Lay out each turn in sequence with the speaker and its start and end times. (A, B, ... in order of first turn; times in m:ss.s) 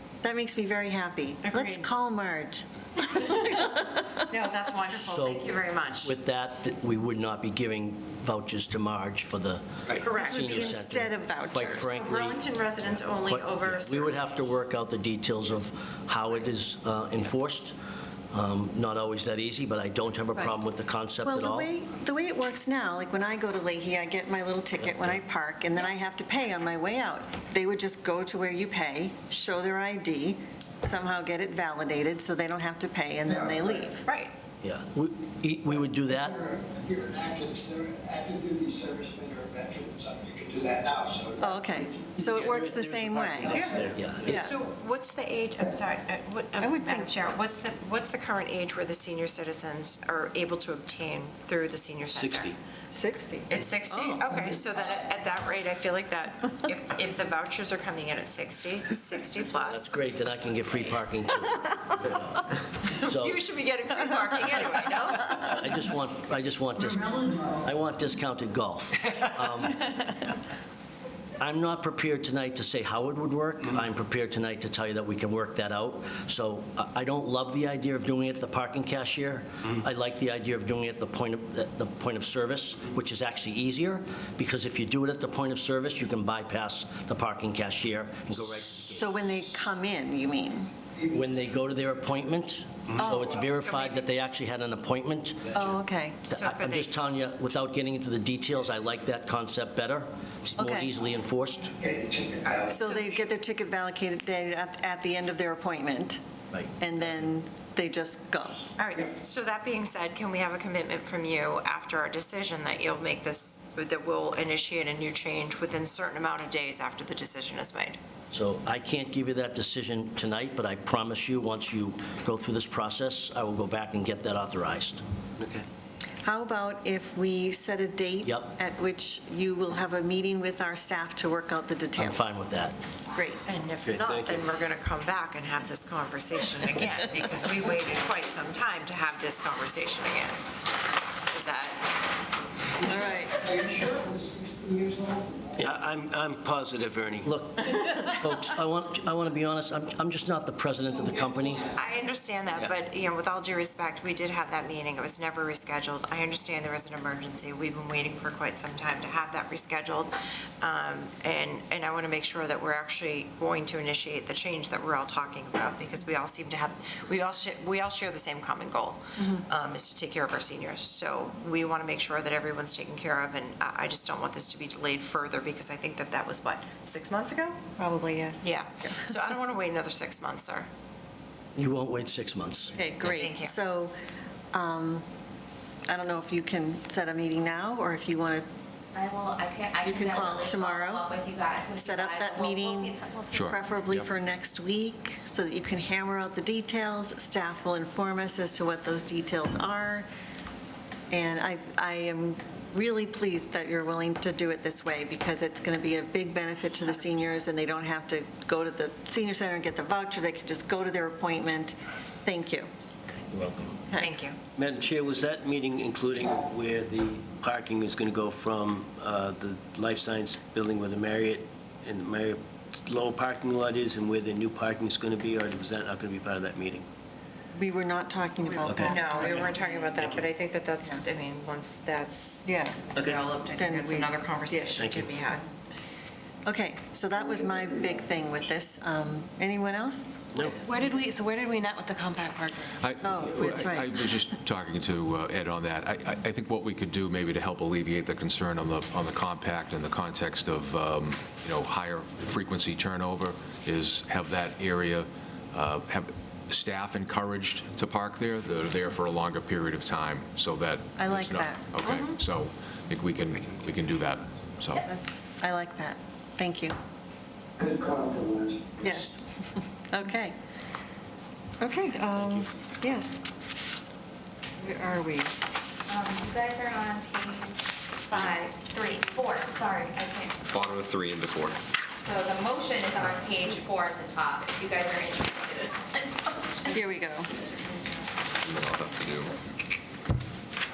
0:00.2-0:04.2 A
0:01.4-0:01.9 B
0:04.3-0:06.1 B
0:04.9-0:12.4 C
0:09.9-0:10.8 B
0:10.2-0:11.9 A
0:11.5-0:14.3 B
0:13.2-0:17.7 C
0:18.3-0:21.7 C
0:21.2-0:34.0 A
0:34.0-0:34.3 B
0:34.6-0:36.4 C
0:36.4-0:42.2 D
0:41.4-0:44.5 A
0:42.2-0:44.5 C
0:42.3-0:44.1 E
0:43.5-0:43.9 D
0:44.3-0:52.5 B
0:46.6-0:47.1 A
0:52.0-0:52.6 E
0:52.9-0:54.6 A
0:53.5-1:00.0 B
0:59.6-1:03.4 C
1:02.8-1:05.7 B
1:05.5-1:10.2 C
1:11.4-1:29.4 C
1:28.9-1:30.7 A
1:31.1-1:35.6 C
1:33.5-1:34.0 B
1:35.5-1:36.3 A
1:36.3-1:41.8 C
1:36.3-1:36.9 B
1:40.6-1:40.9 A
1:41.8-1:42.6 D
1:42.4-1:43.2 B
1:42.7-1:46.2 A
1:46.8-1:48.6 A
1:48.8-1:58.0 B
1:58.3-2:05.0 C
2:05.4-2:05.6 E
2:06.2-2:12.4 A
2:12.0-2:12.7 C
2:13.1-2:13.4 A
2:13.4-2:20.4 B
2:13.8-2:14.5 E
2:21.3-2:21.9 B
2:22.8-2:23.4 A
2:23.4-2:25.5 D
2:25.6-2:27.3 E
2:27.2-2:31.7 C
2:31.6-2:57.6 B
2:49.2-2:49.4 A
2:57.8-2:59.1 A
2:58.4-3:00.7 B
3:01.6-3:02.8 C
3:02.7-3:03.9 A
3:03.0-3:03.6 B
3:04.5-3:05.0 A
3:05.9-3:08.4 A
3:08.9-3:13.2 F
3:09.8-3:11.1 A
3:11.7-3:20.0 A
3:13.3-3:14.1 G
3:21.1-3:32.8 A
3:33.3-3:33.8 C
3:34.0-3:34.4 B
3:34.6-3:46.8 E
3:47.5-3:50.2 A
3:48.6-3:49.5 E
3:48.6-3:55.4 B
3:52.4-3:52.8 A
3:53.0-3:53.2 E
3:53.6-3:54.9 A
3:54.8-3:55.0 E
3:56.4-4:00.2 A
4:00.6-4:02.7 H
4:02.8-4:24.8 G
4:03.0-4:04.2 A
4:21.0-4:21.6 A
4:21.8-4:22.2 B
4:24.8-4:26.7 A
4:27.6-4:28.8 D
4:28.8-4:29.2 A
4:29.9-4:30.3 A
4:31.6-4:33.2 A
4:32.1-4:32.4 E
4:34.6-4:35.3 A
4:35.9-4:40.3 F
4:38.1-4:38.4 I
4:40.5-4:41.6 I
4:42.0-4:48.1 F
4:46.7-4:47.3 A
4:48.4-4:49.3 I